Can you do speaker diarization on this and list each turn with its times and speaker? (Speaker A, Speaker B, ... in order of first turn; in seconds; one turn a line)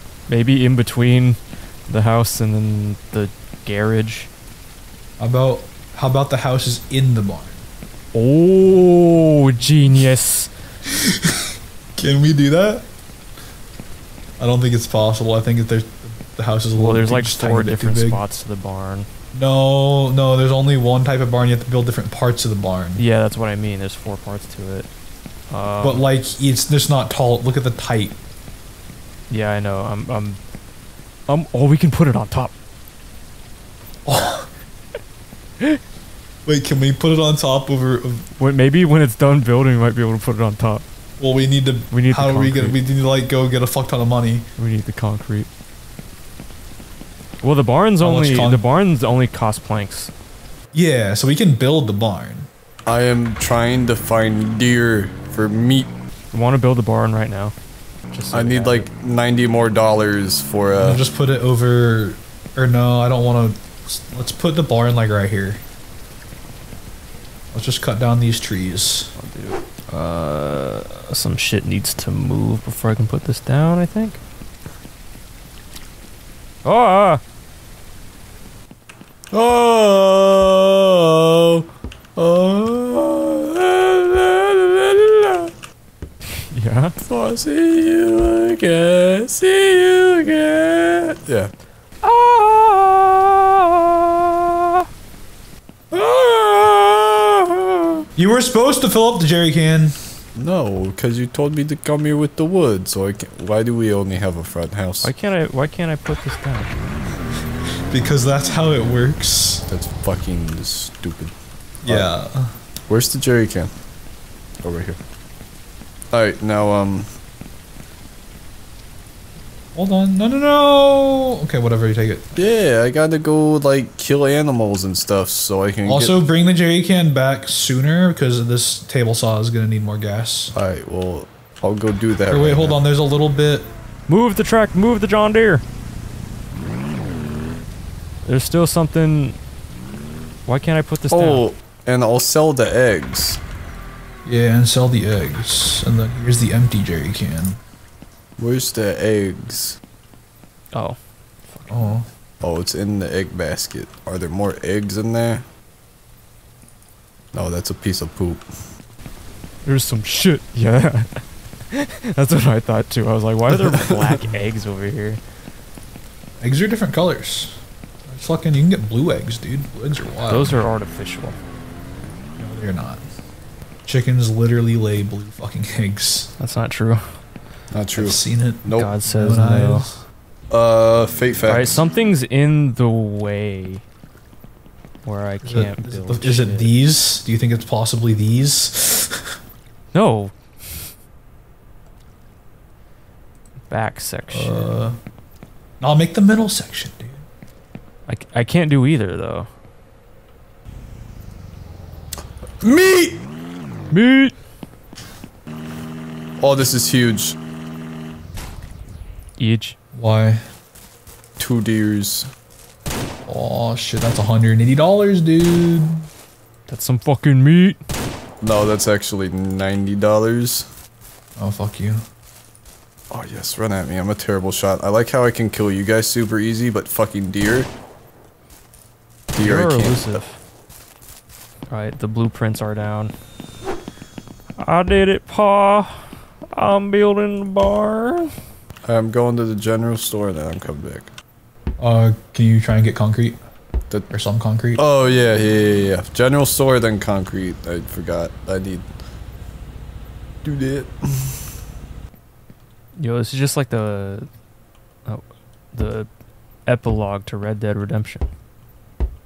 Speaker A: 0.3-4.3
Speaker B: 5.2-7.6
Speaker A: 8.1-10.5
Speaker B: 11.0-12.9
Speaker B: 14.4-18.2
Speaker A: 16.8-19.1
Speaker B: 19.3-23.0
Speaker A: 23.0-24.9
Speaker A: 25.5-26.0
Speaker B: 25.8-28.2
Speaker A: 29.3-30.4
Speaker A: 31.3-32.5
Speaker B: 34.1-34.5
Speaker B: 36.5-38.3
Speaker A: 38.4-40.8
Speaker B: 41.2-44.5
Speaker A: 41.9-42.8
Speaker A: 44.6-45.5
Speaker A: 47.4-50.1
Speaker B: 48.0-48.6
Speaker B: 50.7-52.5
Speaker C: 52.9-55.9
Speaker A: 56.3-57.5
Speaker A: 58.1-58.9
Speaker C: 58.3-61.0
Speaker B: 60.8-65.6
Speaker B: 67.5-69.1
Speaker A: 69.2-74.2
Speaker A: 76.6-77.2
Speaker C: 79.3-85.5
Speaker A: 86.4-86.9
Speaker C: 87.0-91.5
Speaker A: 92.0-94.9
Speaker C: 95.9-98.1
Speaker B: 98.2-100.1
Speaker C: 100.4-105.1
Speaker A: 105.0-106.8
Speaker B: 107.9-109.6
Speaker C: 109.7-111.3
Speaker B: 111.8-112.5
Speaker C: 111.8-112.1
Speaker C: 112.9-113.7
Speaker C: 114.6-115.0
Speaker C: 116.1-117.1
Speaker B: 119.8-122.3
Speaker C: 122.4-126.2
Speaker B: 125.8-130.5
Speaker C: 130.5-132.8
Speaker B: 132.3-133.7
Speaker A: 134.1-135.6
Speaker A: 138.2-139.4
Speaker A: 140.5-141.5
Speaker C: 141.1-143.4
Speaker B: 144.2-147.6
Speaker C: 148.4-149.8
Speaker A: 150.7-151.9
Speaker B: 151.7-152.1
Speaker C: 152.4-155.4
Speaker C: 157.3-158.4
Speaker A: 159.7-165.2
Speaker C: 163.5-164.0
Speaker B: 166.4-170.7
Speaker A: 170.3-171.4
Speaker B: 172.4-173.0
Speaker B: 173.9-176.3
Speaker A: 176.4-177.1
Speaker C: 177.7-178.9
Speaker B: 178.0-180.0
Speaker A: 178.7-180.0
Speaker C: 180.5-181.8
Speaker A: 181.5-183.8
Speaker A: 185.0-186.8
Speaker B: 185.4-189.2
Speaker A: 189.9-190.3
Speaker A: 193.7-194.8
Speaker B: 194.3-195.0
Speaker B: 195.8-197.2
Speaker A: 198.1-199.5
Speaker C: 202.6-203.2
Speaker A: 203.9-204.3
Speaker C: 206.4-207.3
Speaker A: 209.4-209.8
Speaker B: 209.9-210.4
Speaker C: 211.4-212.3
Speaker B: 213.2-216.1
Speaker A: 216.7-217.8
Speaker C: 218.4-220.7
Speaker B: 221.4-222.0
Speaker C: 223.1-227.7
Speaker C: 229.3-230.2
Speaker A: 229.4-230.4
Speaker A: 231.7-233.1
Speaker A: 234.6-238.3
Speaker C: 238.8-241.1
Speaker B: 241.8-243.4
Speaker B: 244.1-244.8
Speaker C: 244.8-248.9
Speaker C: 250.4-251.4
Speaker A: 253.0-254.3
Speaker A: 255.1-256.1
Speaker A: 256.7-258.3